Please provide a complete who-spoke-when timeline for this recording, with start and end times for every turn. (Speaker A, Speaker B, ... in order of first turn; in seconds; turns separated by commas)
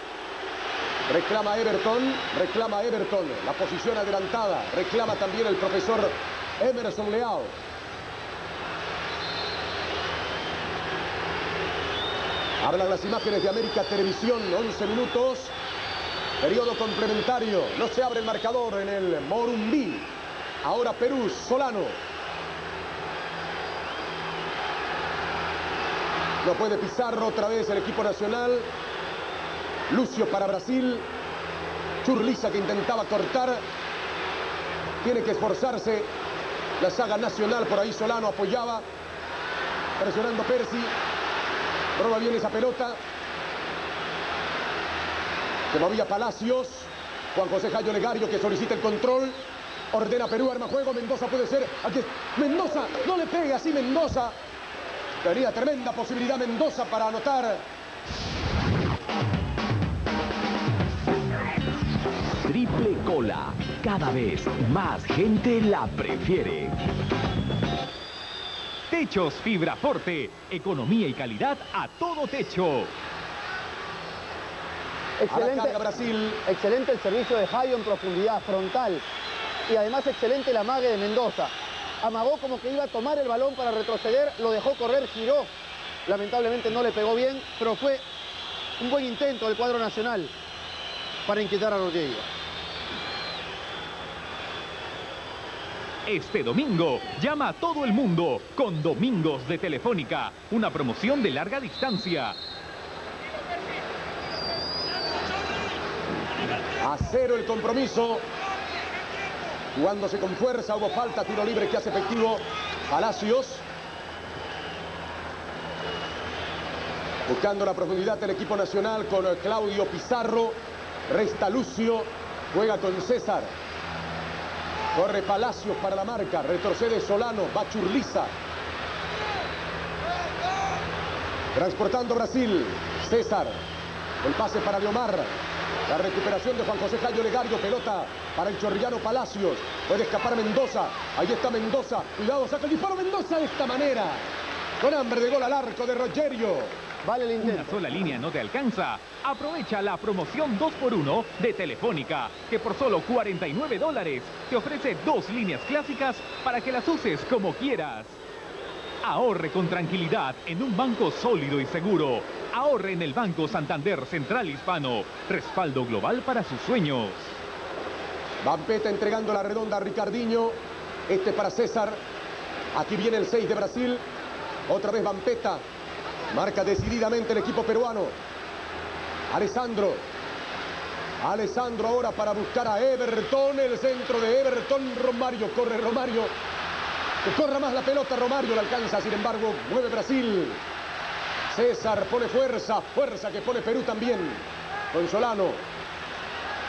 Speaker A: 1.1-7.5, Speaker A: 12.6-15.5, Speaker A: 16.4-20.1, Speaker A: 20.6-22.0, Speaker A: 26.4-28.7, Speaker A: 29.9-31.1, Speaker A: 32.0-33.6, Speaker A: 35.0-36.1, Speaker A: 36.8-38.8, Speaker A: 40.0-40.9, Speaker A: 42.0-43.0, Speaker A: 45.7-49.4, Speaker A: 49.9-54.3, Speaker A: 55.2-57.6, Speaker B: 62.5-66.8, Speaker C: 68.9-72.9, Speaker D: 75.2-75.8, Speaker A: 75.3-76.4, Speaker D: 76.5-79.0, Speaker D: 79.7-85.5, Speaker D: 86.1-88.0, Speaker D: 88.8-90.3, Speaker D: 91.3-92.3, Speaker C: 96.1-102.4, Speaker A: 106.8-108.2, Speaker A: 109.7-113.6, Speaker A: 117.3-120.6, Speaker A: 121.1-123.5, Speaker A: 125.0-128.3, Speaker A: 131.5-133.6, Speaker A: 134.2-135.3, Speaker A: 135.9-144.2, Speaker A: 144.8-146.7, Speaker D: 147.0-147.8, Speaker C: 147.4-158.2, Speaker C: 159.0-167.4, Speaker A: 168.4-170.6, Speaker A: 171.1-172.0, Speaker A: 172.7-174.0, Speaker A: 174.7-175.6, Speaker A: 176.3-178.2, Speaker A: 179.3-180.0, Speaker A: 181.2-186.3, Speaker A: 187.2-190.6, Speaker A: 191.5-195.6